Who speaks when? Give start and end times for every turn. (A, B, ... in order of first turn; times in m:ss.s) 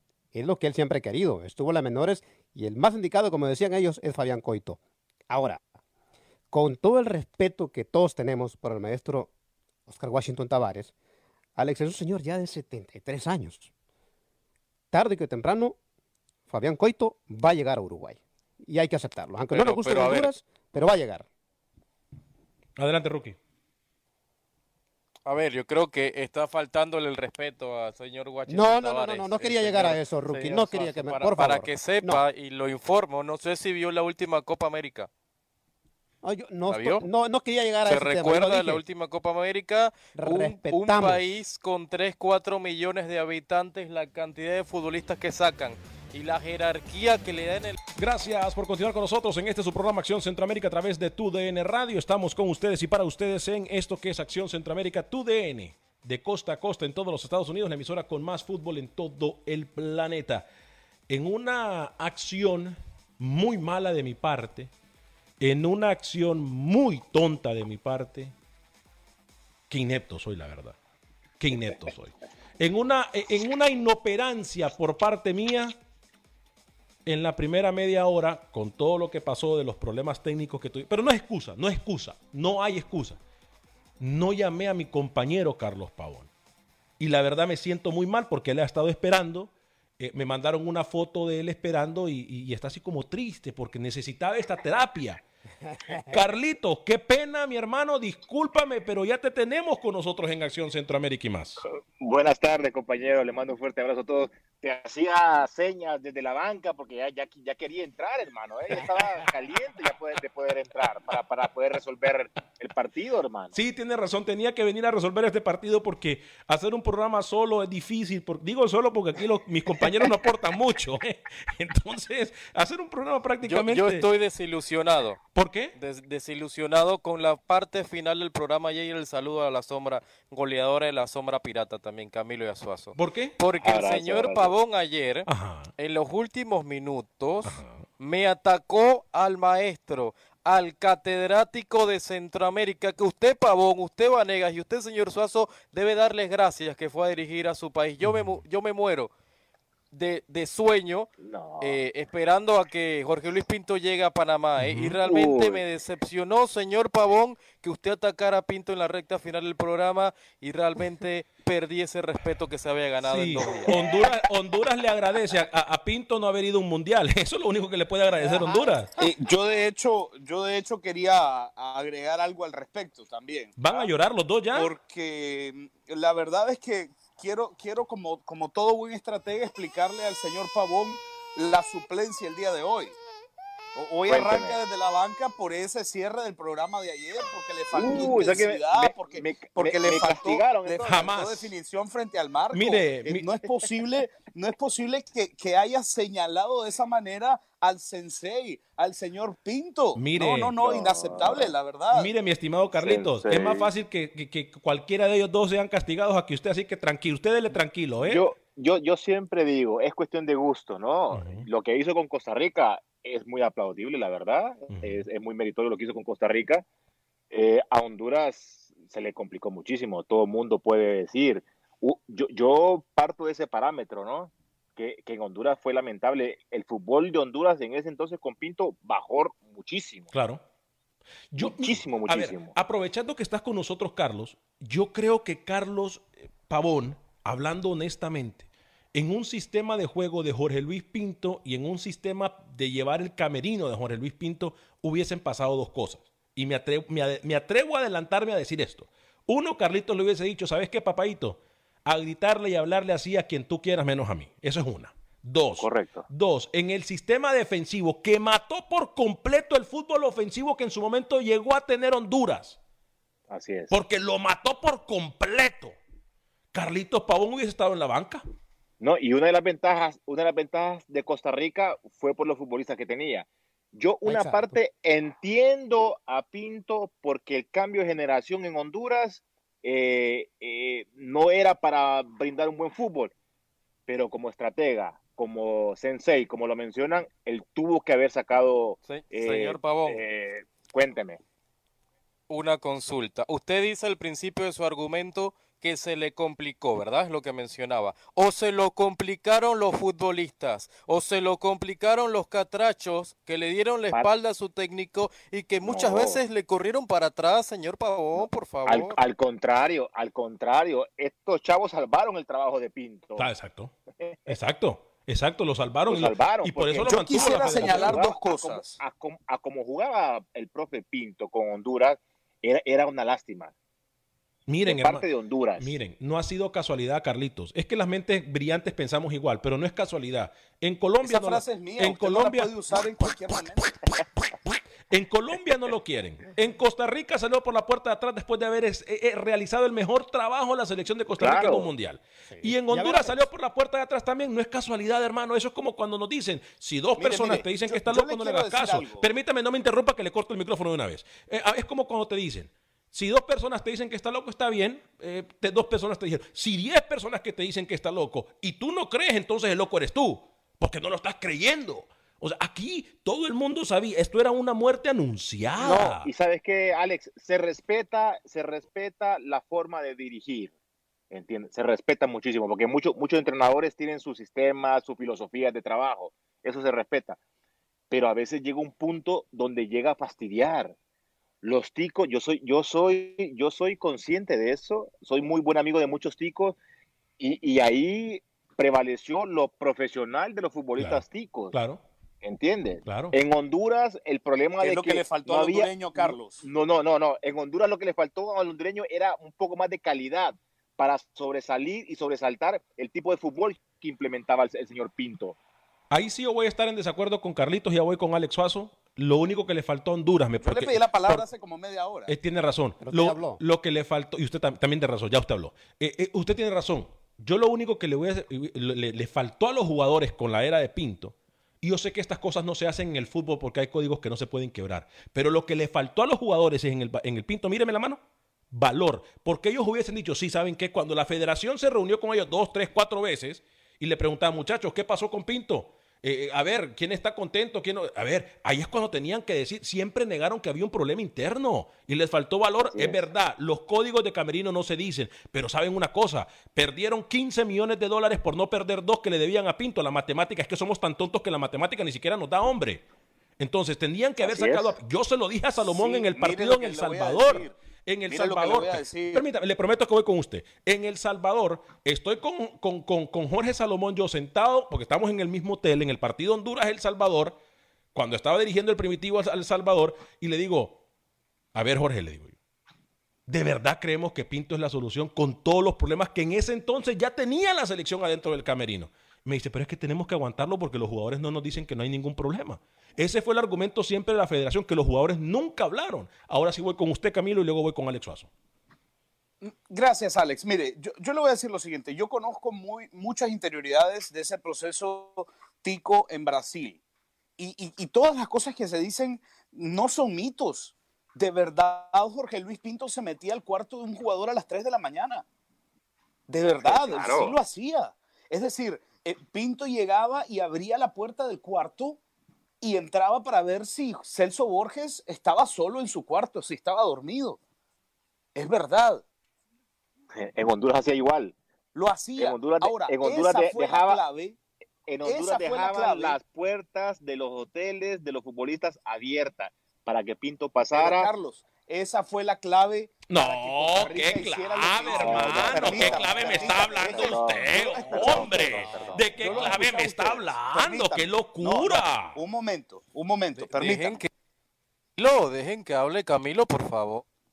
0:00.3-0:04.8 A
0:05.3-0:05.6 A
0:06.5-0:09.3 A
0:09.9-0:10.9 A
0:11.6-0:13.7 A
0:14.9-0:15.8 A
0:16.5-0:21.3 A
0:19.5-0:20.3 B
0:22.8-0:23.4 C
0:25.3-0:35.1 B
0:28.5-0:32.2 A
0:36.2-0:38.8 A
0:36.7-0:37.1 B
0:37.8-0:47.8 B
0:40.2-0:41.3 A
0:48.0-1:00.5 C
1:01.1-1:04.7 C
1:05.4-1:08.3 C
1:09.7-1:10.8 C
1:11.4-1:15.8 C
1:17.1-1:23.2 C
1:24.0-1:26.3 C
1:27.0-1:35.2 C
1:36.1-1:41.6 C
1:42.0-1:53.6 D
1:53.6-2:04.1 C
2:03.4-2:05.2 B
2:05.4-2:05.7 C
2:05.8-2:15.3 B
2:13.0-2:13.4 C
2:13.6-2:14.5 D
2:15.3-2:15.7 C
2:15.8-2:29.1 B
2:17.4-2:17.8 C
2:28.0-2:28.4 C
2:29.9-2:31.1 B
2:31.2-2:31.8 D
2:31.6-2:43.7 B
2:34.6-2:35.0 C
2:35.0-2:35.6 D
2:43.0-2:48.9 C
2:48.2-2:48.6 A
2:49.0-2:53.9 E
2:53.6-2:54.7 C
2:54.5-3:03.0 E
3:03.8-3:22.1 E
3:04.1-3:04.6 D
3:07.7-3:11.0 D
3:10.8-3:11.6 C
3:12.5-3:13.3 C
3:20.0-3:20.6 C
3:20.6-3:21.5 D
3:21.9-3:28.2 C
3:22.7-3:23.7 D
3:27.5-3:36.6 D
3:31.1-3:31.5 C
3:34.7-3:35.0 C
3:37.3-3:50.1 D
3:50.1-3:50.4 C
3:51.3-4:22.6 C
3:51.4-3:52.6 D
4:15.6-4:16.1 D
4:23.3-4:23.8 D
4:23.7-4:25.8 C
4:26.5-4:28.2 C
4:28.8-4:43.1 D
4:34.1-4:34.6 A
4:43.9-4:51.2 D
4:48.8-4:50.0 B
4:52.3-5:09.0 B
5:05.6-5:06.2 D
5:08.2-5:13.3 D
5:13.2-5:13.7 C
5:14.0-5:14.4 D
5:14.3-5:18.1 C
5:15.9-5:23.5 D
5:16.8-5:18.8 E
5:24.5-5:25.0 C
5:24.7-5:25.8 D
5:25.6-6:06.1 C
5:31.0-5:33.8 E
5:41.2-5:41.7 D
5:42.3-5:43.0 A
5:47.0-5:49.1 E
6:05.6-6:10.5 D
6:11.1-6:17.2 D
6:17.9-6:20.8 D
6:21.4-6:26.6 D
6:27.2-6:31.6 D
6:30.8-6:31.8 C
6:32.2-6:45.4 D
6:32.8-6:33.2 C
6:34.6-6:36.4 E
6:45.9-6:51.2 C
6:50.4-6:52.1 E
6:52.1-7:08.0 C
6:52.8-6:53.4 A
7:08.5-7:32.8 C
7:22.6-7:23.0 D
7:33.4-7:47.4 C
7:34.2-7:34.8 D
7:35.6-7:37.6 E
7:38.1-7:39.2 E
7:48.0-7:50.8 C
7:51.6-7:52.4 C
7:53.3-8:08.3 C
8:09.4-8:16.8 E
8:17.4-8:25.2 E
8:26.3-8:32.0 E
8:26.6-8:27.4 D
8:32.6-8:37.4 E
8:38.4-8:39.0 E
8:40.1-8:41.4 D
8:41.8-8:44.4 E
8:42.2-8:44.0 D
8:44.9-8:51.1 D
8:45.0-8:46.2 E
8:50.7-9:04.0 E
8:53.1-9:02.2 C
8:54.8-8:59.6 D
9:03.4-9:04.1 B
9:05.0-9:07.0 B